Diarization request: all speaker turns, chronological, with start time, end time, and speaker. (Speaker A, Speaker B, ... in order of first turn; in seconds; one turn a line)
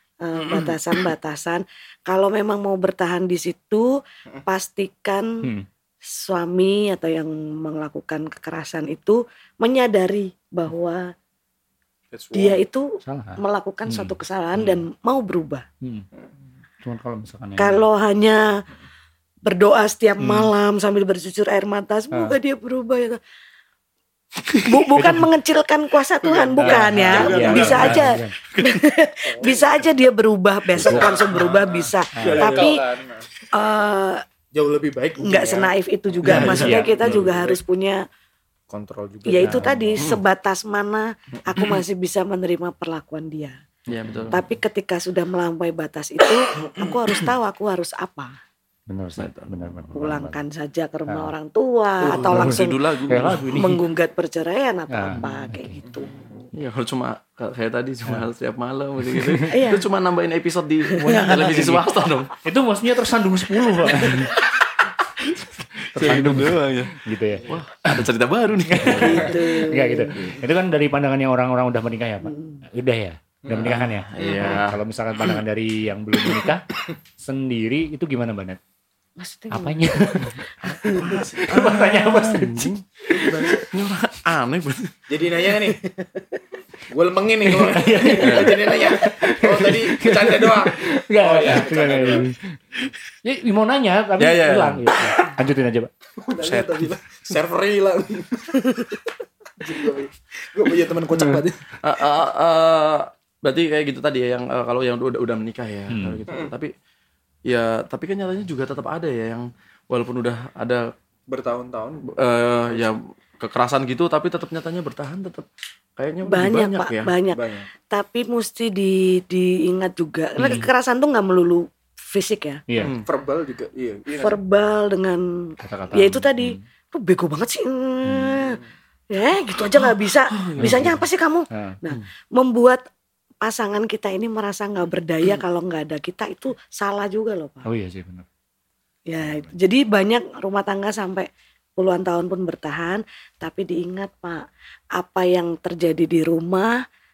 Speaker A: 0.2-3.9
Speaker A: 4.5-5.3
Speaker A: 6.1-11.1
Speaker B: 12.1-12.6
Speaker A: 12.3-15.6
Speaker C: 13.0-14.8
Speaker C: 15.8-16.1
Speaker C: 16.8-17.8
Speaker A: 17.6-18.5
Speaker A: 19.4-23.2
Speaker C: 20.2-20.5
Speaker A: 24.6-32.8
Speaker C: 24.9-25.3
Speaker D: 26.2-28.8
Speaker C: 26.6-28.3
Speaker B: 26.9-28.2
Speaker B: 29.2-29.8
Speaker C: 30.7-31.3
Speaker B: 30.8-33.3
Speaker C: 32.1-32.5
Speaker A: 33.5-34.2
Speaker B: 34.5-37.6
Speaker A: 35.2-38.0
Speaker D: 36.2-37.3
Speaker C: 36.3-36.9
Speaker B: 38.7-40.0
Speaker A: 39.2-43.6
Speaker C: 39.4-39.7
Speaker D: 43.9-44.4
Speaker A: 44.3-48.3
Speaker C: 48.9-50.4
Speaker D: 49.1-49.9
Speaker A: 49.9-52.8
Speaker C: 51.1-51.3
Speaker D: 52.0-53.5
Speaker C: 52.1-53.8
Speaker A: 53.5-56.1
Speaker C: 54.9-55.8
Speaker B: 55.8-56.4
Speaker D: 56.5-62.3
Speaker C: 59.0-59.5
Speaker A: 59.5-59.9
Speaker A: 61.0-61.5
Speaker C: 61.4-61.8
Speaker C: 62.4-64.3
Speaker D: 64.0-64.7
Speaker D: 65.7-69.4
Speaker C: 65.9-68.1
Speaker C: 68.7-76.6
Speaker A: 68.9-70.3
Speaker D: 70.2-70.4
Speaker A: 72.2-72.6
Speaker B: 73.4-74.6
Speaker D: 73.5-75.4
Speaker C: 77.2-78.6
Speaker A: 79.2-81.1
Speaker C: 79.5-83.6
Speaker B: 80.6-83.7
Speaker D: 81.0-82.7
Speaker D: 83.7-84.9
Speaker B: 85.1-85.8
Speaker A: 85.8-86.2
Speaker B: 86.9-92.3
Speaker C: 87.4-92.6
Speaker D: 88.2-88.6
Speaker C: 93.2-95.9
Speaker D: 94.2-94.8
Speaker B: 96.2-99.0
Speaker B: 99.6-101.7
Speaker D: 101.8-106.7
Speaker C: 105.9-106.2
Speaker D: 107.5-110.8
Speaker B: 111.3-112.2
Speaker D: 112.1-115.5
Speaker D: 116.0-117.1
Speaker A: 116.2-122.6
Speaker B: 117.3-117.7
Speaker C: 120.4-120.7
Speaker C: 122.7-122.9
Speaker D: 122.8-123.0
Speaker B: 122.9-124.4
Speaker A: 124.2-125.3
Speaker C: 125.6-126.6
Speaker A: 125.9-132.8
Speaker C: 128.1-128.3
Speaker D: 130.3-130.9
Speaker C: 130.6-131.8
Speaker A: 133.4-137.7
Speaker C: 137.6-138.2
Speaker A: 139.1-144.4
Speaker C: 139.2-139.6
Speaker A: 144.9-146.8